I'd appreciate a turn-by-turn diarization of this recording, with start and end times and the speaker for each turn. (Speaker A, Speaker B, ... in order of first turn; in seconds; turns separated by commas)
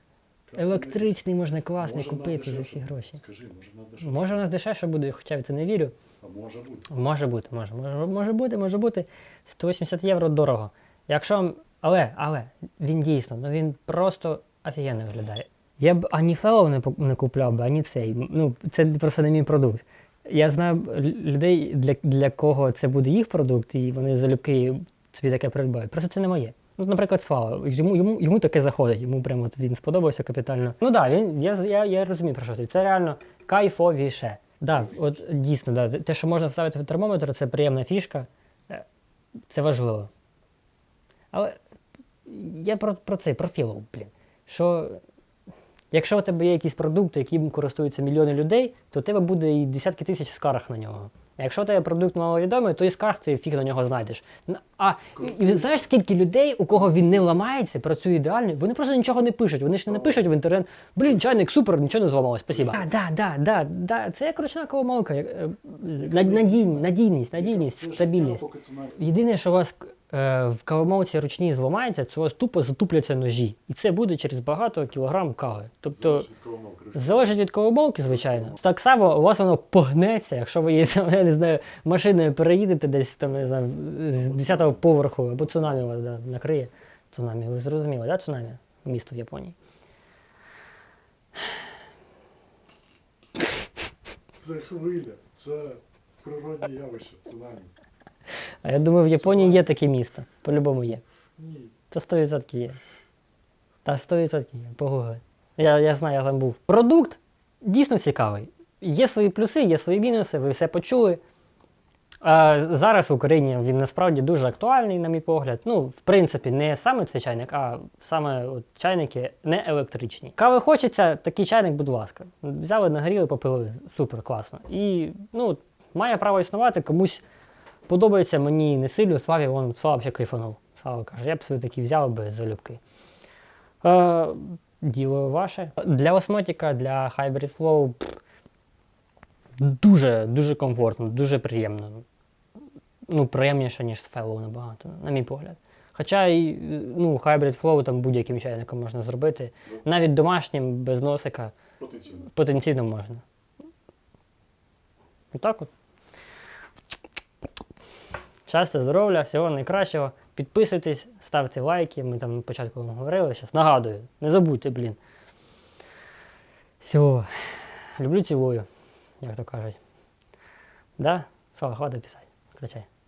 Speaker A: 0.5-1.2, Speaker B: 0.6-3.2, Speaker A: 1.8-4.4, Speaker B: 4.0-5.9, Speaker A: 6.2-6.9, Speaker B: 6.9-38.8, Speaker A: 34.7-35.2, Speaker B: 39.5-40.1, Speaker B: 41.3-41.6, Speaker B: 42.2-45.0, Speaker B: 45.9-68.4, Speaker A: 55.1-55.8, Speaker A: 59.9-60.3, Speaker A: 61.1-61.4, Speaker A: 62.5-62.9, Speaker A: 65.9-69.0, Speaker B: 69.0-76.3, Speaker A: 75.9-77.5, Speaker B: 76.9-89.5, Speaker A: 78.1-78.6, Speaker A: 84.1-84.9, Speaker A: 85.4-85.8, Speaker A: 94.3-97.8, Speaker B: 98.6-101.0, Speaker A: 99.1-99.7, Speaker A: 101.4-101.7, Speaker B: 101.9-102.8, Speaker B: 103.8-111.2, Speaker B: 112.2-127.2, Speaker B: 127.9-132.8, Speaker B: 133.8-138.2, Speaker B: 139.6-142.0, Speaker B: 143.1-151.5, Speaker A: 151.8-152.3, Speaker B: 152.2-153.2, Speaker B: 155.3-155.7, Speaker B: 158.5-165.0, Speaker B: 166.8-168.7, Speaker B: 169.2-169.8, Speaker B: 171.0-172.9